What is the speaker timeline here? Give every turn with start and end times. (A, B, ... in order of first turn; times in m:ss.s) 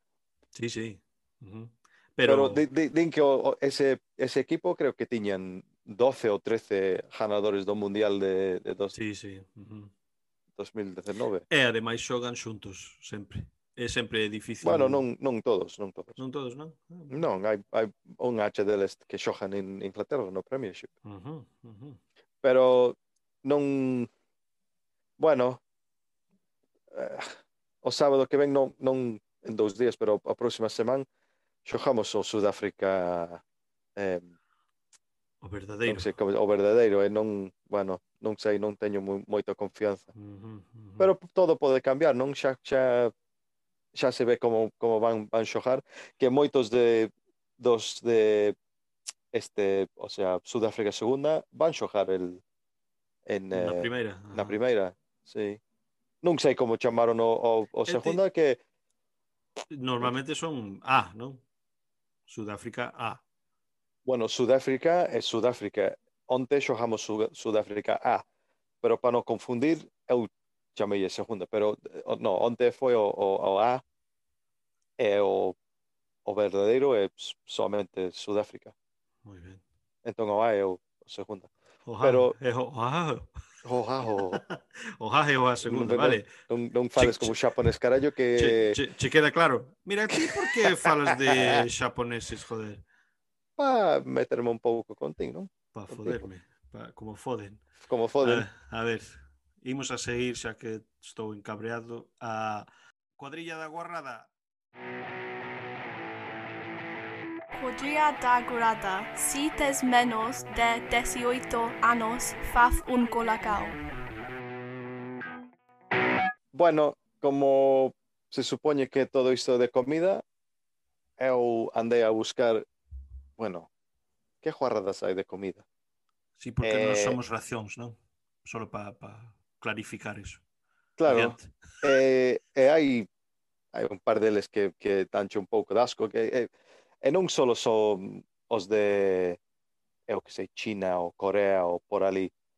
0:00.5-0:02.6 A
0:02.2-0:08.9 B
0:08.9-0:09.9 A
0:10.6-0:11.4 B
0:11.5-0:15.0 A
0:14.6-0:16.2 B
0:16.2-0:17.2 A
0:17.1-0:20.9 B
0:21.0-0:22.0 A
0:22.4-0:24.1 B
0:25.2-0:25.6 B
0:26.9-0:31.0 B
0:31.6-0:33.4 B
0:34.0-0:34.3 B
0:35.4-0:36.2 A
0:35.8-0:40.1 B
0:40.1-0:41.1 A
0:41.0-0:43.1 B
0:43.9-0:48.6 B
0:49.3-0:52.4 B
0:53.3-0:55.6 B
0:53.5-0:54.6 A
0:56.2-0:58.6 B
0:57.8-0:58.2 A
0:59.7-1:01.4 A
1:02.3-1:03.2 A
1:04.0-1:08.2 B
1:08.8-1:13.8 B
1:15.0-1:15.6 B
1:16.2-1:18.7 B
1:19.2-1:19.6 A
1:20.0-1:21.5 B
1:21.8-1:23.3 A
1:22.0-1:22.3 B
1:23.6-1:24.4 B
1:24.1-1:26.3 A
1:25.6-1:28.8 B
1:27.0-1:27.4 A
1:28.4-1:32.8 A
1:30.6-1:31.6 B
1:33.6-1:36.3 B
1:35.7-1:37.6 A
1:37.8-1:38.5 B
1:38.2-1:44.3 A
1:47.5-1:53.8 C
1:56.5-2:00.2 B
2:01.2-2:02.6 B
2:03.4-2:03.7 B
2:04.4-2:05.6 B
2:06.4-2:10.4 A
2:06.6-2:07.2 B
2:11.0-2:13.1 B
2:11.1-2:11.5 A
2:13.7-2:16.5 B
2:17.0-2:19.4 B
2:20.1-2:22.3 B